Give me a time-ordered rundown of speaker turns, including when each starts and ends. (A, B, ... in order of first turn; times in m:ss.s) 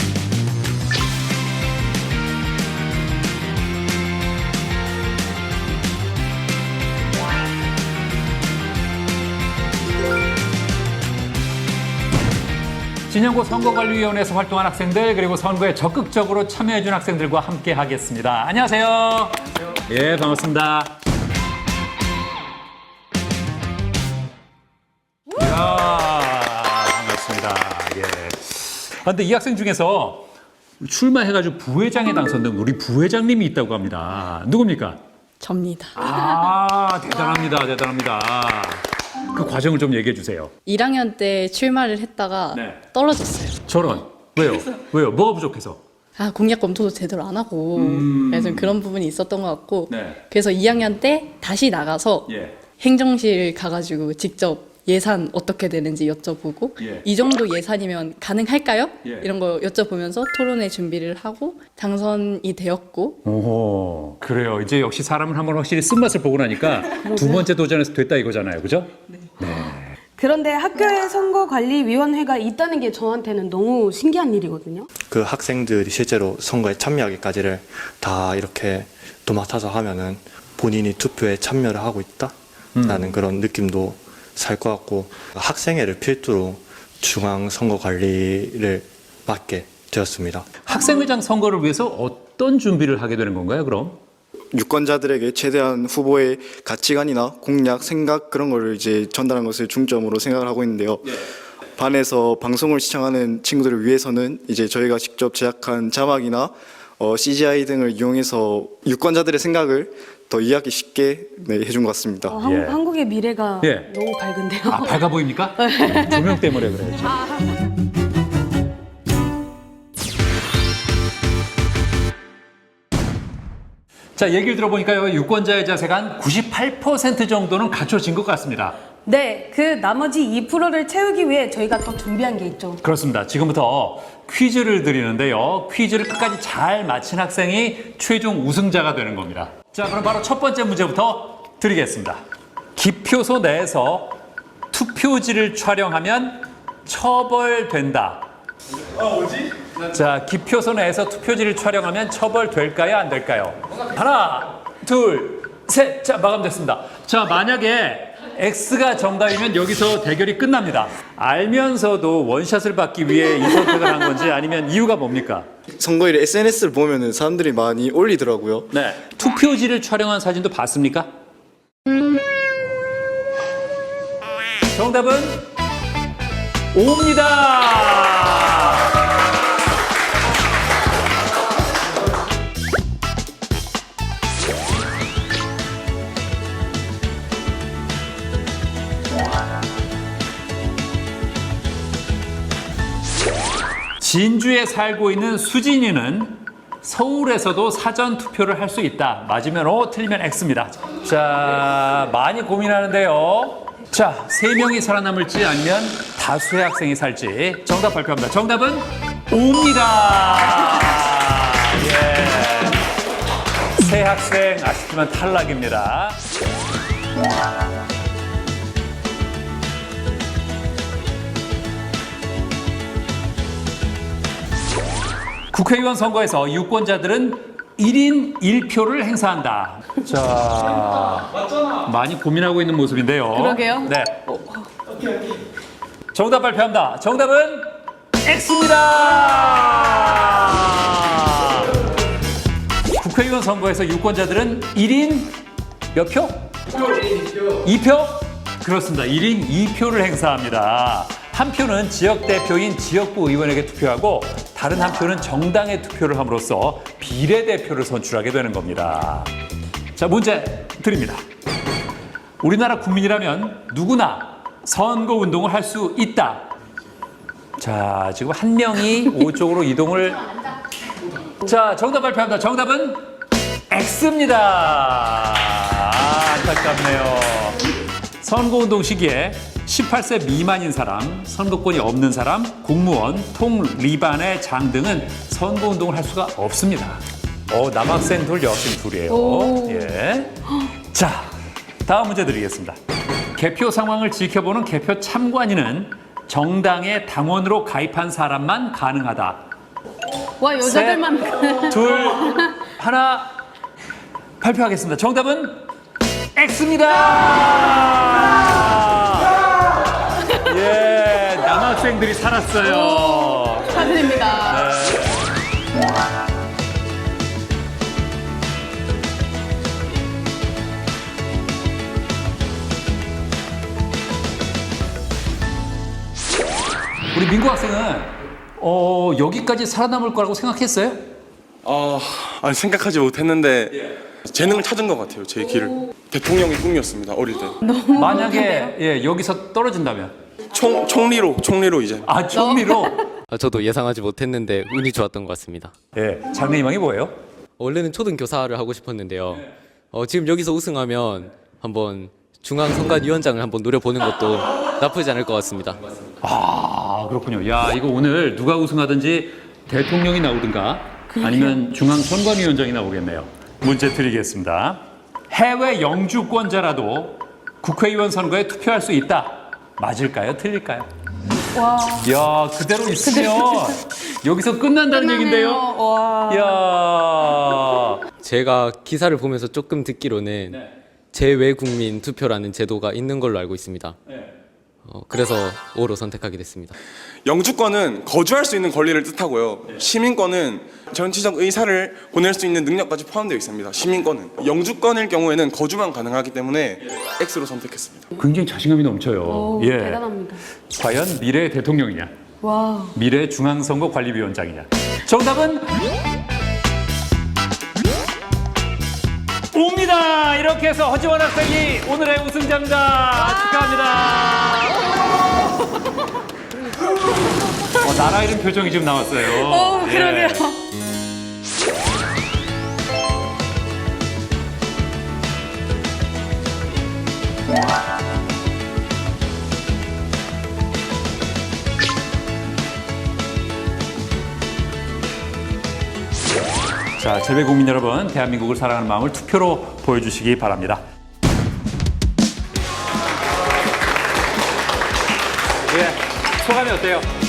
0:13.1-0:21.0 A
0:25.4-0:30.3 A
0:30.8-0:35.0 A
0:35.4-0:36.2 B
0:36.0-0:40.5 A
0:40.7-0:43.7 B
0:42.5-0:42.8 A
0:43.7-0:45.8 A
0:46.2-1:03.2 B
0:47.8-0:48.7 A
0:49.9-0:50.2 A
0:52.3-0:52.6 A
0:56.8-0:57.1 A
1:03.2-1:09.9 A
1:07.1-1:07.4 C
1:10.2-1:14.9 C
1:15.1-1:22.3 D
1:22.8-1:23.0 A
1:22.8-1:30.5 D
1:30.7-1:34.0 A
1:34.5-1:41.2 E
1:41.8-1:52.4 E
1:52.3-1:56.4 C
1:52.4-1:52.8 A
1:53.6-1:53.9 A
1:54.7-1:57.2 A
2:04.2-2:08.8 A
2:09.0-2:12.8 C
2:12.8-2:22.2 A
2:22.8-2:24.2 A
2:24.7-2:28.2 A
2:29.9-2:45.5 A
2:45.8-2:48.7 E
2:48.7-2:51.1 A
2:54.7-2:55.5 A
2:56.7-2:58.9 A
3:14.0-3:32.8 A
3:33.8-3:36.2 A
3:45.5-3:51.3 A
3:51.8-3:54.2 A
3:53.4-3:54.7 C
3:56.1-4:01.7 A
4:03.0-4:05.4 A
4:05.9-4:06.5 A
4:07.6-4:19.3 A
4:20.0-4:21.2 A
4:22.4-4:26.4 A
4:27.6-4:30.3 A
4:31.4-4:33.0 A
4:33.7-4:37.6 A
4:38.2-4:50.3 A
4:49.1-4:49.9 C
4:50.9-4:51.3 A
4:51.8-4:52.8 A
4:53.4-4:59.4 A
5:00.4-5:02.3 C
5:00.6-5:03.3 A
5:04.4-5:05.6 A
5:06.4-5:09.3 A
5:10.3-5:15.3 A
5:13.7-5:14.6 C
5:27.1-5:31.1 A
5:31.6-5:37.6 F
5:37.6-5:38.7 C
5:37.9-5:40.1 A
5:40.5-5:42.2 F
5:42.1-5:43.0 A
5:43.3-5:45.7 G
5:45.9-5:47.1 A
5:47.6-5:55.9 G
5:56.2-6:10.9 A
6:01.2-6:01.6 C
6:11.6-6:12.0 C
6:12.0-6:15.7 A
6:15.2-6:16.5 C
6:16.3-6:18.0 A
6:18.2-6:24.0 G
6:24.8-6:26.8 G
6:27.2-6:38.1 F
6:38.2-6:40.0 A
6:39.2-6:40.4 C
6:40.7-6:42.1 A
6:42.4-6:43.0 C
6:43.0-6:45.8 A
6:49.5-6:54.9 A
6:57.7-7:00.5 A
7:17.0-7:20.8 A
7:25.7-7:27.1 A